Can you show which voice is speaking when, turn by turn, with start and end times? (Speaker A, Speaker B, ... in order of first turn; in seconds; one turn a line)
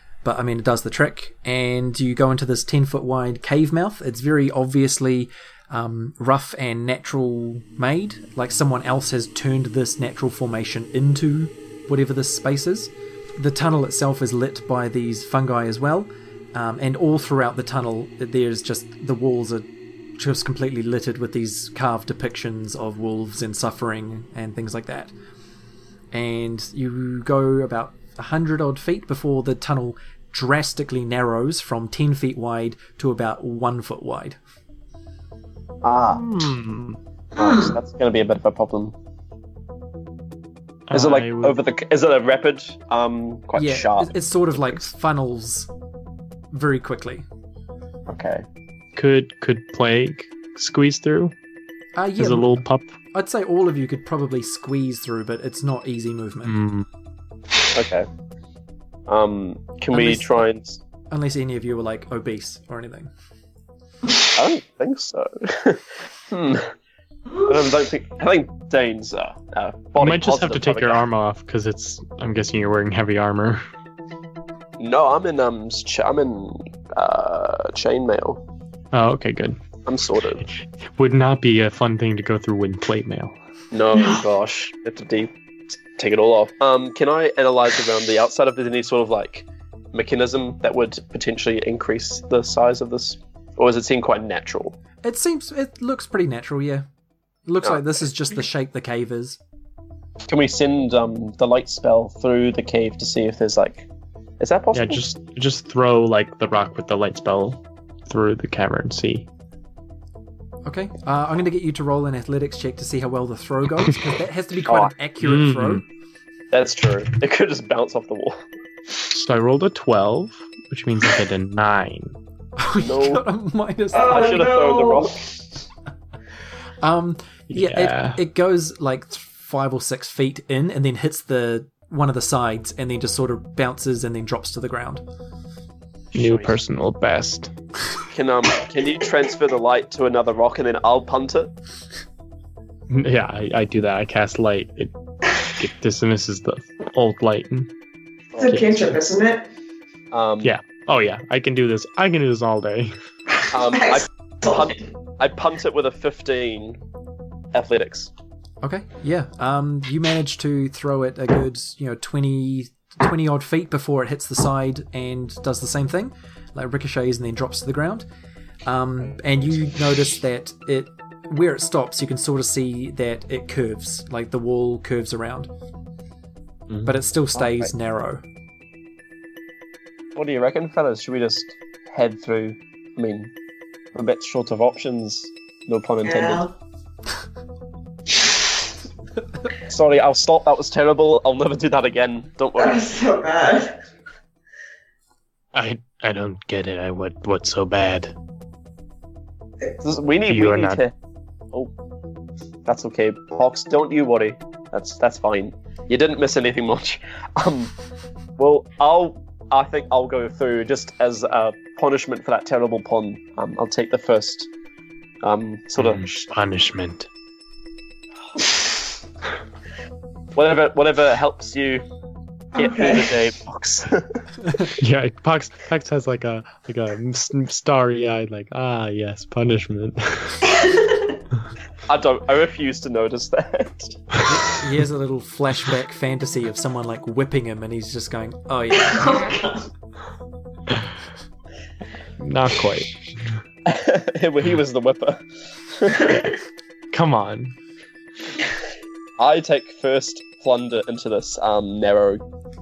Speaker A: 0.2-19.7
Speaker A: 20.2-25.1
Speaker A: 26.1-34.4
Speaker B: 35.8-36.4
Speaker C: 36.1-37.0
Speaker B: 37.3-38.9
Speaker D: 37.4-37.7
Speaker C: 40.9-41.6
Speaker B: 40.9-44.7
Speaker A: 43.5-45.7
Speaker A: 46.5-47.2
Speaker B: 48.1-48.4
Speaker C: 49.0-51.3
Speaker A: 51.9-52.6
Speaker C: 52.2-52.9
Speaker A: 53.1-56.5
Speaker C: 56.5-56.9
Speaker B: 57.7-58.1
Speaker B: 59.1-60.8
Speaker A: 59.9-60.4
Speaker A: 61.1-63.1
Speaker B: 64.3-66.7
Speaker B: 67.4-71.0
Speaker C: 70.0-73.6
Speaker B: 74.8-78.4
Speaker C: 78.9-79.6
Speaker B: 79.8-80.4
Speaker C: 80.4-83.3
Speaker B: 83.7-94.8
Speaker A: 95.0-96.9
Speaker A: 97.5-99.4
Speaker B: 100.3-103.9
Speaker B: 104.4-105.0
Speaker C: 104.7-109.3
Speaker A: 110.7-115.8
Speaker C: 115.2-115.8
Speaker B: 116.5-118.4
Speaker C: 119.1-122.2
Speaker A: 122.6-124.4
Speaker B: 122.8-123.2
Speaker D: 123.9-125.2
Speaker B: 124.1-125.2
Speaker A: 126.8-135.0
Speaker C: 127.5-128.2
Speaker B: 136.1-136.5
Speaker C: 136.1-137.5
Speaker B: 138.1-141.5
Speaker C: 142.9-147.7
Speaker B: 148.3-148.6
Speaker D: 148.4-149.4
Speaker C: 148.4-149.0
Speaker B: 150.1-150.5
Speaker C: 150.4-152.9
Speaker B: 153.5-156.8
Speaker D: 153.7-154.7
Speaker B: 157.5-158.1
Speaker A: 158.6-168.1
Speaker A: 168.6-175.5
Speaker A: 176.8-178.2
Speaker B: 177.3-177.7
Speaker B: 180.1-183.3
Speaker B: 183.9-186.4
Speaker D: 186.0-186.5
Speaker B: 189.6-193.0
Speaker D: 192.6-193.8
Speaker E: 195.5-198.1
Speaker B: 199.8-200.9
Speaker E: 200.3-200.8
Speaker B: 202.6-207.7
Speaker B: 208.4-214.5
Speaker B: 215.2-216.1
Speaker E: 215.9-217.1
Speaker B: 220.3-221.8
Speaker D: 222.5-223.2
Speaker B: 222.5-224.2
Speaker C: 224.8-230.4
Speaker D: 230.4-231.1
Speaker B: 231.9-234.0
Speaker A: 234.2-239.3
Speaker D: 238.8-239.7
Speaker C: 242.2-243.0
Speaker B: 243.6-246.2
Speaker C: 246.9-247.6
Speaker B: 249.2-252.2